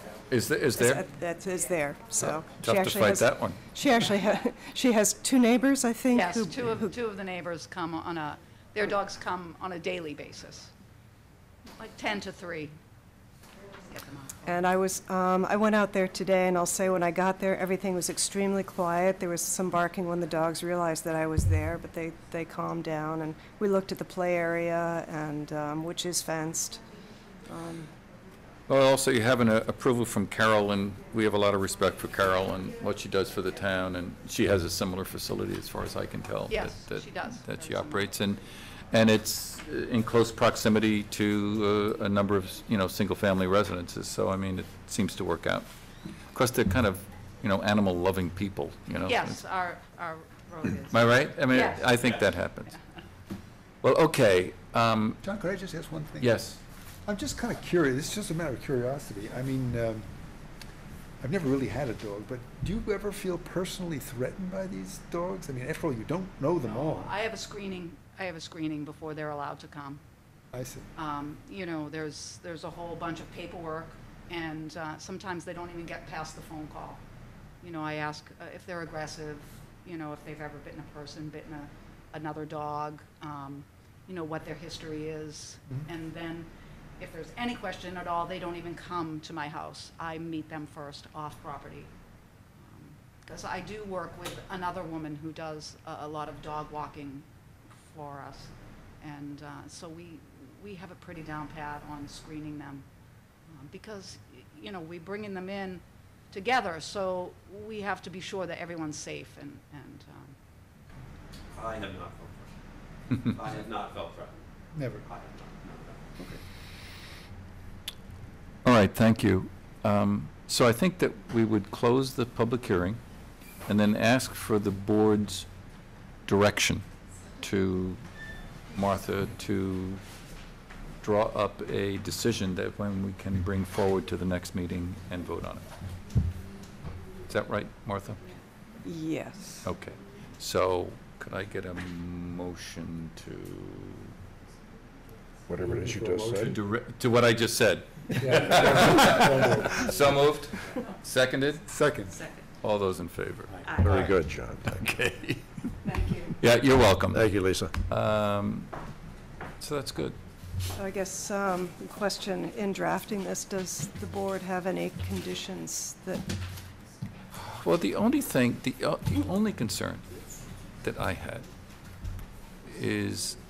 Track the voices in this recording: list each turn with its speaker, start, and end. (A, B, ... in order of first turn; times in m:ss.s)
0:00.3-0:01.1 A
0:00.7-0:06.9 B
0:02.1-0:03.6 A
0:06.1-0:10.7 C
0:11.8-0:12.7 C
0:13.9-0:14.4 C
0:14.5-0:26.8 B
0:27.5-0:27.9 B
0:28.7-0:45.7 A
0:36.5-0:38.2 C
0:46.3-0:49.4 A
0:49.1-0:51.9 C
0:50.9-0:52.8 A
0:52.0-0:52.2 D
0:53.8-0:55.2 A
0:55.2-0:56.4 E
0:56.2-0:56.6 A
0:57.1-1:00.1 E
1:01.2-1:07.2 E
1:06.6-1:10.0 C
1:10.5-1:10.9 E
1:11.0-1:17.0 C
1:17.6-1:31.9 C
1:32.6-1:37.3 C
1:37.8-1:42.9 C
1:43.5-1:50.4 C
1:51.5-1:52.5 D
1:53.2-1:54.4 D
1:54.7-1:55.0 E
1:55.0-1:56.1 D
1:58.6-2:03.0 A
2:03.7-2:05.5 A
2:06.3-2:06.8 A
2:07.4-2:08.0 A
2:08.7-2:10.0 A
2:11.0-2:15.6 A
2:17.3-2:18.2 A
2:18.8-2:19.7 B
2:19.6-2:24.1 A
2:25.5-2:26.6 F
2:25.6-2:26.5 E
2:26.3-2:31.7 A
2:28.2-2:30.0 E
2:31.7-2:32.2 E
2:32.6-2:34.2 A
2:33.8-2:34.9 F
2:34.7-2:35.4 A
2:35.8-2:36.3 C
2:36.4-2:37.4 A
2:37.1-2:37.8 F
2:37.9-2:38.7 A
2:39.6-2:40.2 A
2:40.7-2:46.3 B
2:47.3-2:50.2 A
2:50.8-2:51.5 A
2:52.6-2:53.4 A